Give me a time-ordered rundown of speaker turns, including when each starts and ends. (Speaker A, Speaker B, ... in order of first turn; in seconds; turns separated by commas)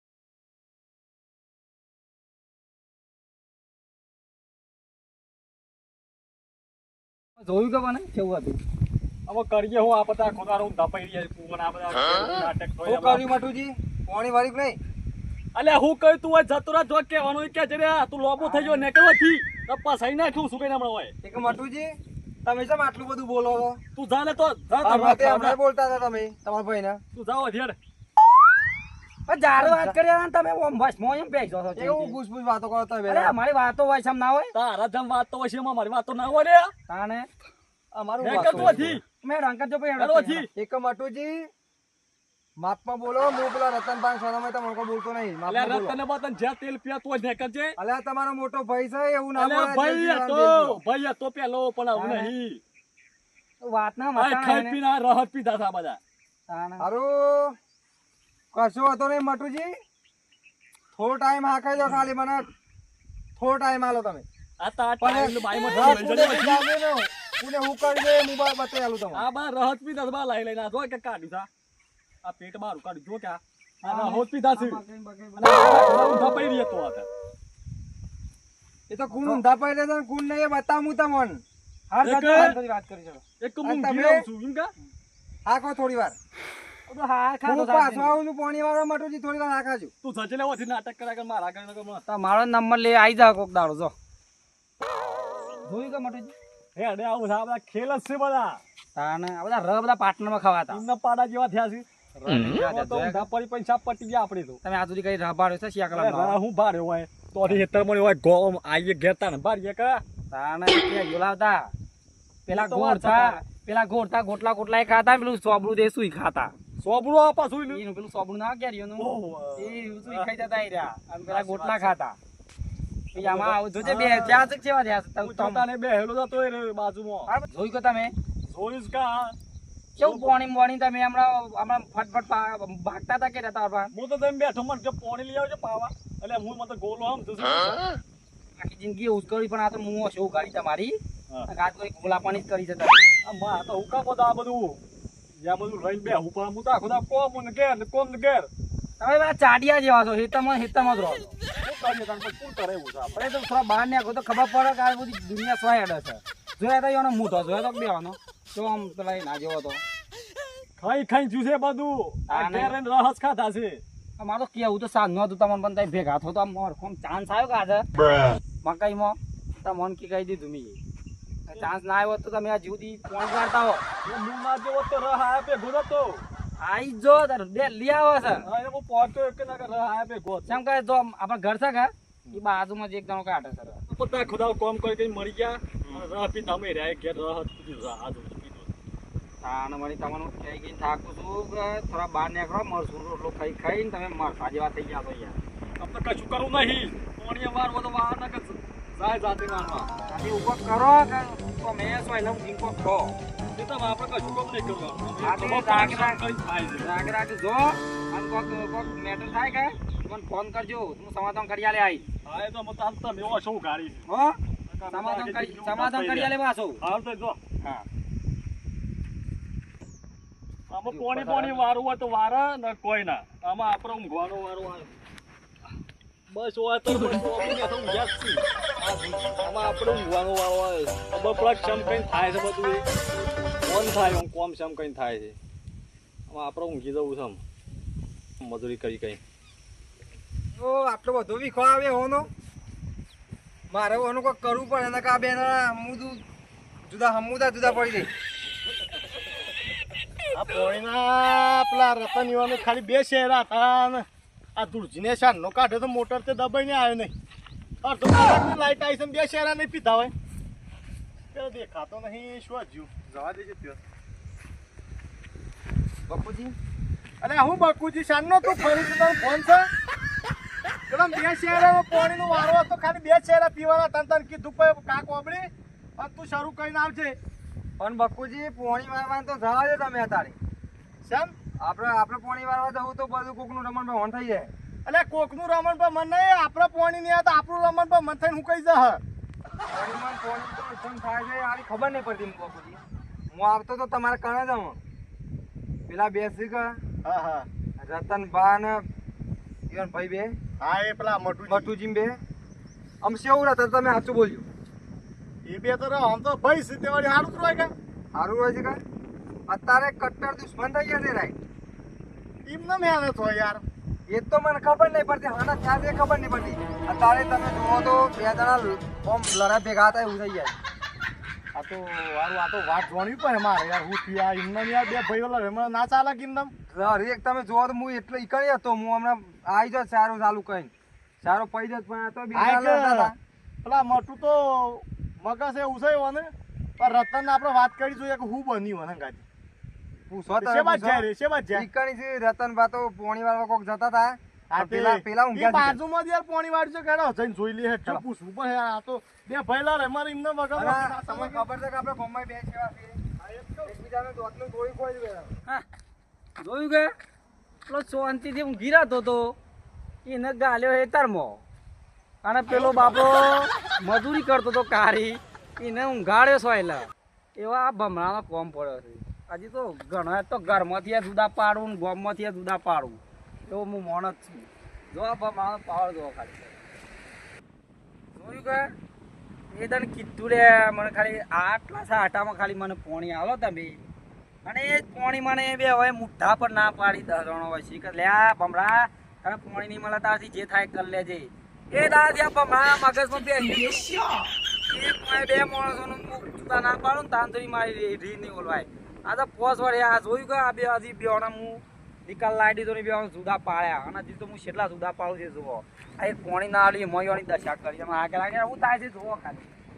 Speaker A: 7.4-8.6, Speaker B: 9.3-13.2, Speaker C: 12.8-14.8, Speaker B: 15.5-21.1, Speaker C: 21.2-21.9, Speaker C: 22.4-23.8, Speaker B: 23.9-25.6, Speaker C: 24.8-27.0, Speaker B: 27.1-27.8, Speaker A: 29.3-32.2, Speaker C: 29.5-30.0, Speaker C: 31.8-33.3, Speaker A: 33.1-34.5, Speaker B: 34.5-36.7, Speaker A: 36.9-37.3, Speaker B: 38.2-39.0, Speaker A: 38.2-40.5, Speaker C: 38.2-39.0, Speaker D: 38.3-38.9, Speaker B: 40.0-40.5, Speaker C: 40.5-41.5, Speaker C: 42.6-46.0, Speaker B: 45.5-47.7, Speaker C: 47.8-50.8, Speaker B: 49.3-52.6, Speaker A: 52.0-52.3, Speaker A: 53.6-54.8, Speaker B: 54.1-56.0, Speaker A: 56.5-56.8, Speaker C: 56.8-57.5, Speaker C: 58.5-59.8, Speaker C: 60.9-62.5, Speaker C: 63.4-64.2, Speaker B: 64.6-66.7, Speaker C: 65.0-69.3, Speaker B: 69.1-71.5, Speaker B: 72.2-74.8, Speaker A: 73.8-76.4, Speaker B: 75.4-77.1, Speaker C: 78.9-81.4, Speaker A: 81.9-83.2, Speaker B: 82.0-82.6, Speaker B: 83.4-84.7, Speaker C: 83.6-84.3, Speaker C: 85.4-86.2, Speaker A: 86.9-88.2, Speaker C: 87.4-89.9, Speaker B: 90.0-92.0, Speaker A: 92.1-93.9, Speaker A: 95.6-96.3, Speaker B: 96.8-98.6, Speaker A: 98.9-100.8, Speaker B: 100.7-104.6, Speaker A: 102.3-103.3, Speaker A: 104.6-106.4, Speaker B: 105.9-110.0, Speaker A: 110.3-111.7, Speaker A: 112.5-116.5, Speaker B: 112.5-113.4, Speaker B: 116.8-117.8, Speaker A: 117.7-122.2, Speaker B: 119.0-120.3, Speaker B: 121.3-121.9, Speaker B: 123.1-124.5, Speaker A: 123.1-125.7, Speaker B: 125.2-127.3, Speaker A: 127.3-128.1, Speaker B: 128.5-129.3, Speaker A: 130.0-133.9, Speaker B: 130.0-130.3, Speaker B: 133.9-137.9, Speaker A: 138.6-140.9, Speaker A: 141.5-143.1, Speaker B: 143.2-144.8, Speaker B: 145.4-148.5, Speaker A: 149.0-151.3, Speaker B: 151.6-153.2, Speaker A: 153.1-159.8, Speaker B: 160.8-163.8, Speaker A: 162.3-162.8, Speaker A: 164.2-167.8, Speaker A: 168.6-170.8, Speaker A: 171.5-173.8, Speaker B: 174.0-176.2, Speaker A: 176.6-178.5, Speaker B: 178.4-180.6, Speaker A: 180.4-183.8, Speaker B: 183.9-188.7, Speaker A: 189.4-195.4, Speaker B: 195.8-199.9, Speaker A: 200.1-203.1, Speaker B: 203.5-207.0, Speaker A: 205.2-206.2, Speaker A: 206.8-212.1, Speaker B: 212.2-214.0, Speaker A: 214.1-214.3, Speaker B: 214.7-217.4, Speaker A: 214.9-216.8, Speaker B: 220.7-224.9, Speaker A: 220.9-221.6, Speaker B: 226.3-228.4, Speaker B: 229.4-232.8, Speaker B: 233.7-235.3, Speaker B: 236.3-237.4, Speaker B: 238.4-239.2, Speaker C: 240.6-242.3, Speaker C: 243.7-246.2, Speaker C: 246.9-248.1, Speaker D: 250.3-257.1, Speaker D: 257.8-260.1, Speaker D: 261.3-263.8, Speaker C: 266.1-266.5, Speaker D: 267.2-269.7, Speaker D: 270.9-277.2, Speaker C: 277.8-280.4, Speaker D: 281.0-281.3, Speaker C: 281.6-284.5, Speaker D: 284.9-289.0, Speaker C: 289.7-292.8, Speaker C: 293.3-294.8, Speaker C: 295.9-296.8, Speaker D: 297.0-297.5, Speaker C: 297.8-298.8, Speaker C: 299.7-300.4, Speaker D: 300.6-301.7, Speaker C: 301.5-302.2, Speaker C: 303.0-304.4, Speaker D: 305.4-307.7, Speaker C: 308.1-308.8, Speaker C: 309.5-311.4, Speaker D: 312.4-313.6, Speaker C: 314.1-320.5, Speaker D: 321.5-326.5, Speaker C: 326.7-333.1, Speaker D: 332.3-333.1, Speaker D: 333.6-339.2, Speaker C: 340.1-345.8, Speaker D: 340.4-341.7, Speaker D: 344.5-351.4, Speaker C: 350.5-353.0, Speaker D: 353.2-353.8, Speaker C: 353.6-355.3, Speaker A: 356.4-356.9, Speaker A: 357.7-359.4, Speaker A: 360.0-361.4, Speaker A: 362.2-376.6, Speaker D: 362.5-363.0, Speaker A: 378.1-378.7, Speaker A: 379.5-383.8, Speaker A: 384.4-394.1, Speaker A: 394.7-409.5